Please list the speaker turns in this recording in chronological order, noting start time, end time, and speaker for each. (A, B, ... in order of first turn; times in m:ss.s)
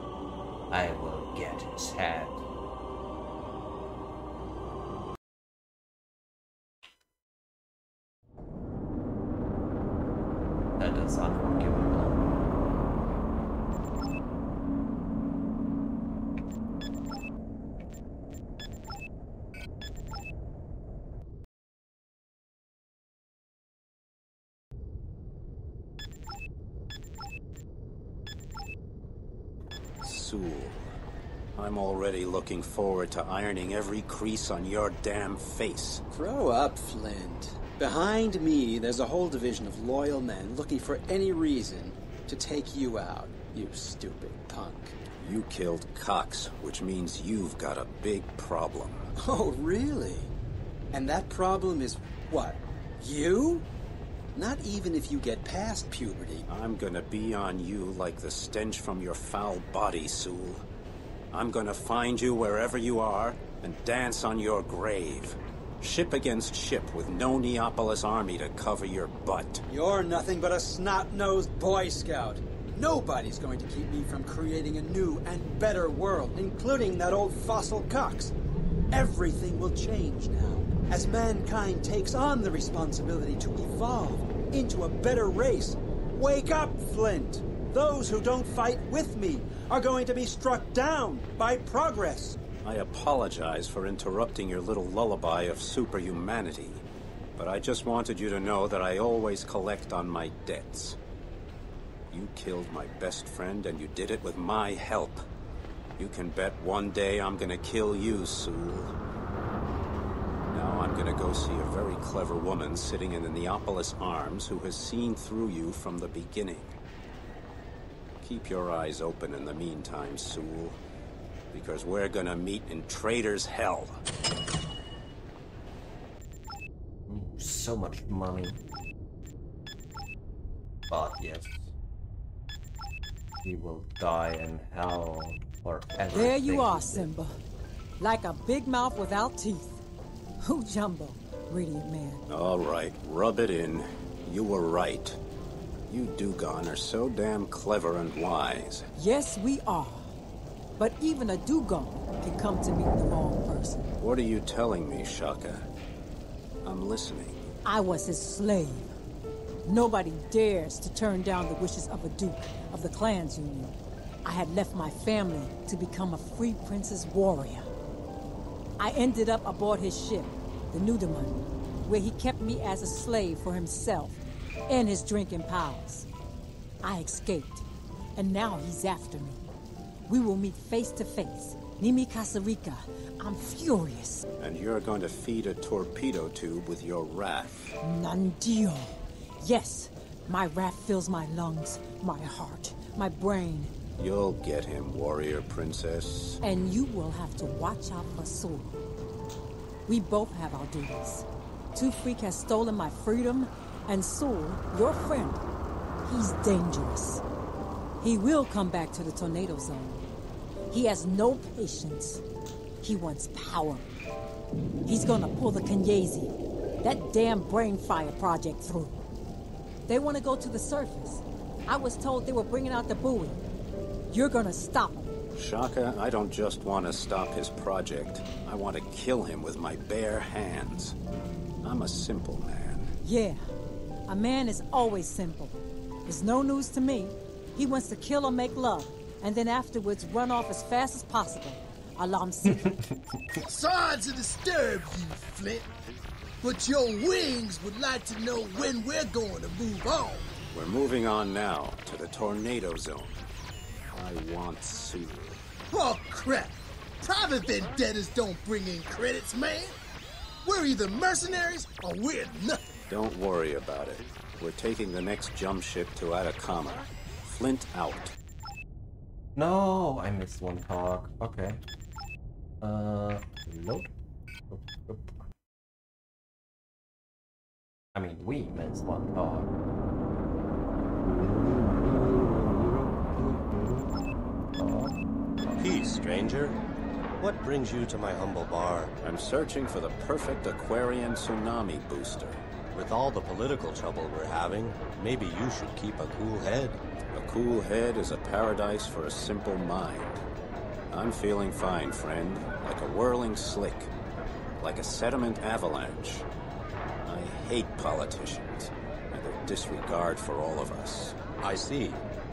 0:00.7-0:02.4 A
0:10.8-0:12.2 A
0:30.0-0:30.9 B
0:31.6-0:36.0 B
0:36.1-0:45.0 C
0:45.2-0:49.1 B
0:49.2-0:50.3 C
0:50.9-0:53.7 C
0:54.4-0:56.4 C
0:56.5-1:00.6 B
1:01.3-1:09.6 B
1:09.7-1:18.3 C
1:18.9-1:32.4 C
1:32.6-1:36.8 B
1:37.4-1:41.0 B
1:42.1-1:45.2 B
1:46.0-1:48.9 B
1:50.5-1:56.8 B
1:58.2-2:00.8 B
2:01.5-2:04.0 B
2:07.1-2:08.6 A
2:10.9-2:11.7 A
2:13.4-2:17.1 A
2:16.1-2:17.3 D
2:18.0-2:19.8 D
2:20.4-2:22.2 D
2:22.3-2:25.2 B
2:25.9-2:28.9 B
2:29.0-2:30.1 D
2:30.8-2:33.9 D
2:34.0-2:35.7 B
2:36.6-2:37.5 B
2:37.6-2:38.9 D
2:39.7-2:47.7 D
2:48.8-2:56.1 D
2:56.8-2:57.7 D
2:58.2-2:59.4 D
3:00.1-3:04.2 D
3:04.4-3:07.8 B
3:07.8-3:13.7 D
3:14.0-3:16.4 B
3:16.4-3:18.8 D
3:19.9-3:25.4 D
3:26.0-3:27.2 D
3:28.0-3:30.0 D
3:30.7-3:32.2 D
3:32.8-3:33.9 D
3:34.9-3:39.0 D
3:39.9-3:43.4 D
3:44.1-3:45.1 D
3:45.4-3:51.0 B
3:51.6-3:52.9 B
3:53.0-3:53.4 D
3:54.1-4:02.8 D
4:02.5-4:03.2 A
4:03.4-4:05.7 E
4:06.4-4:10.3 E
4:10.5-4:13.2 B
4:13.9-4:15.4 B
4:15.7-4:19.8 E
4:20.4-4:22.8 E
4:22.9-4:28.2 B
4:29.4-4:31.6 A
4:32.6-4:33.9 A
4:34.5-4:35.2 A
4:38.0-4:39.5 A
4:41.0-4:44.0 A
4:44.6-4:45.0 A
4:45.5-4:46.6 F
4:47.2-4:48.9 F
4:49.0-4:52.4 B
4:52.7-4:56.8 F
4:57.1-5:00.2 B
5:00.9-5:03.9 B
5:04.6-5:06.3 B
5:07.0-5:11.2 B
5:11.4-5:12.0 F